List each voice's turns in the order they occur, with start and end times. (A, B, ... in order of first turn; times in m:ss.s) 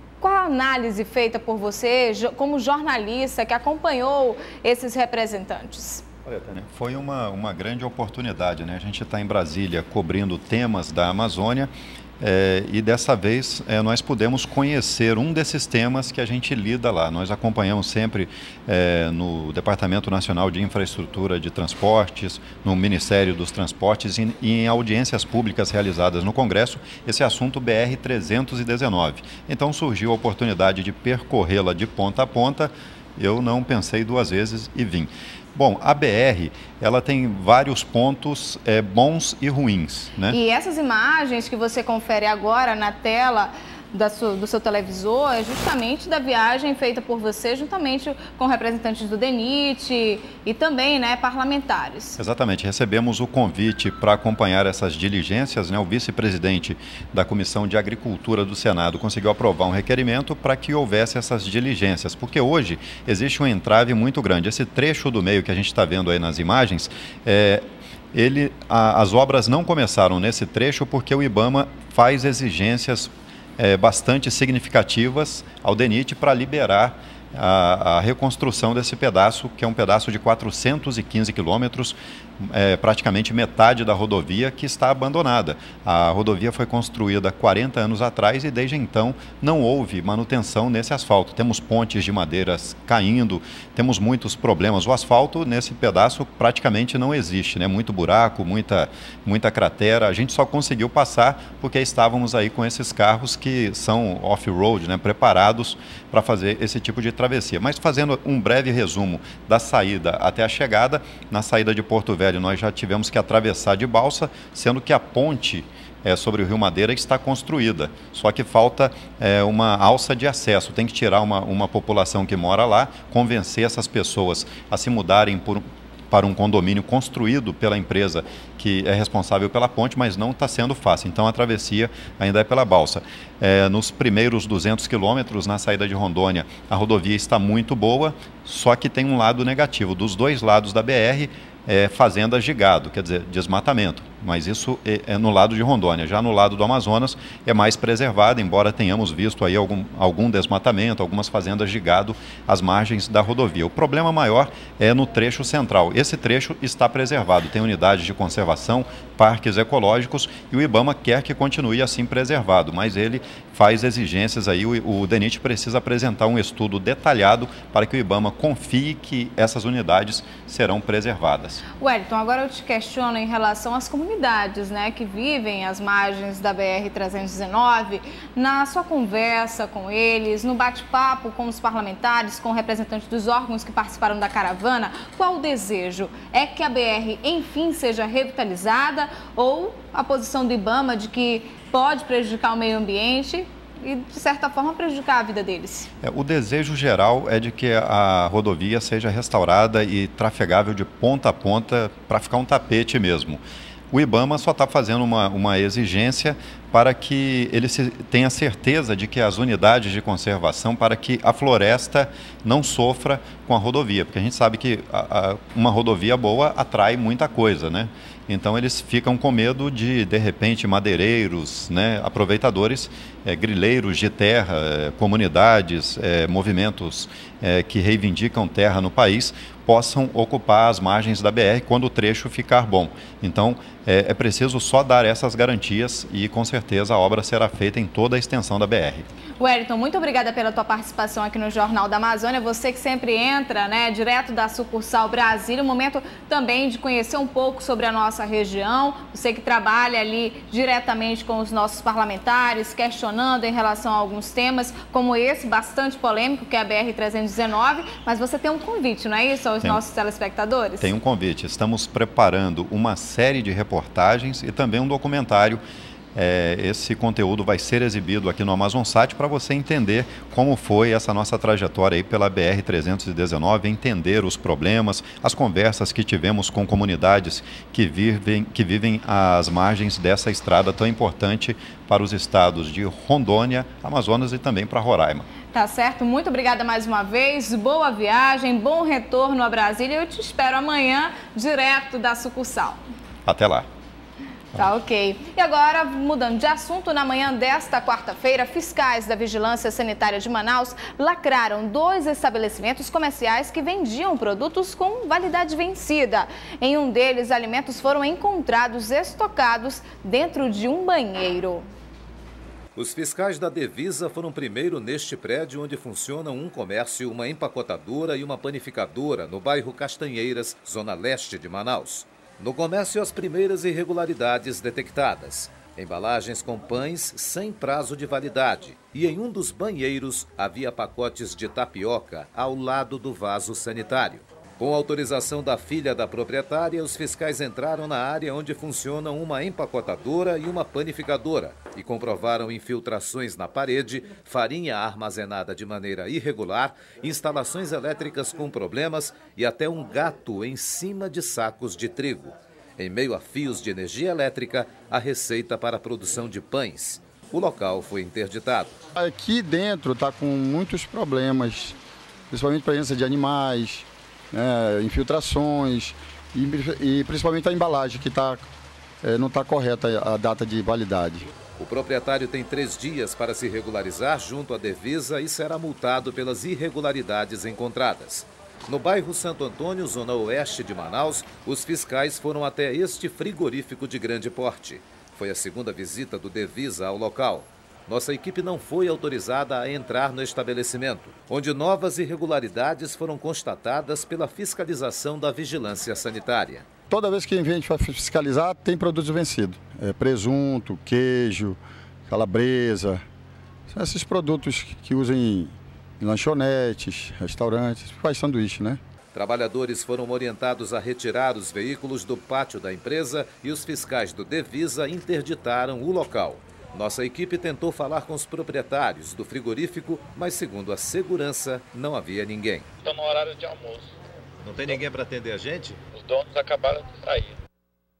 0:00.2-0:06.0 A
0:06.2-0:40.4 B
0:40.3-0:52.2 A
0:52.2-2:51.6 B
2:51.8-3:15.9 A
3:16.0-3:59.1 B
3:59.4-4:20.9 A
4:20.8-4:25.6 B
4:26.2-4:45.3 B
4:45.5-4:52.8 A
4:53.3-4:53.7 B
4:54.6-5:11.7 A
5:12.8-5:58.8 C
5:59.0-6:01.8 D
6:02.3-6:08.5 D
6:09.0-6:11.3 D
6:11.6-6:36.6 C
6:36.9-6:43.0 D
6:43.7-6:48.8 D
6:49.1-7:02.7 C
7:02.8-7:03.9 E
7:04.4-7:05.8 C
7:05.9-7:07.4 E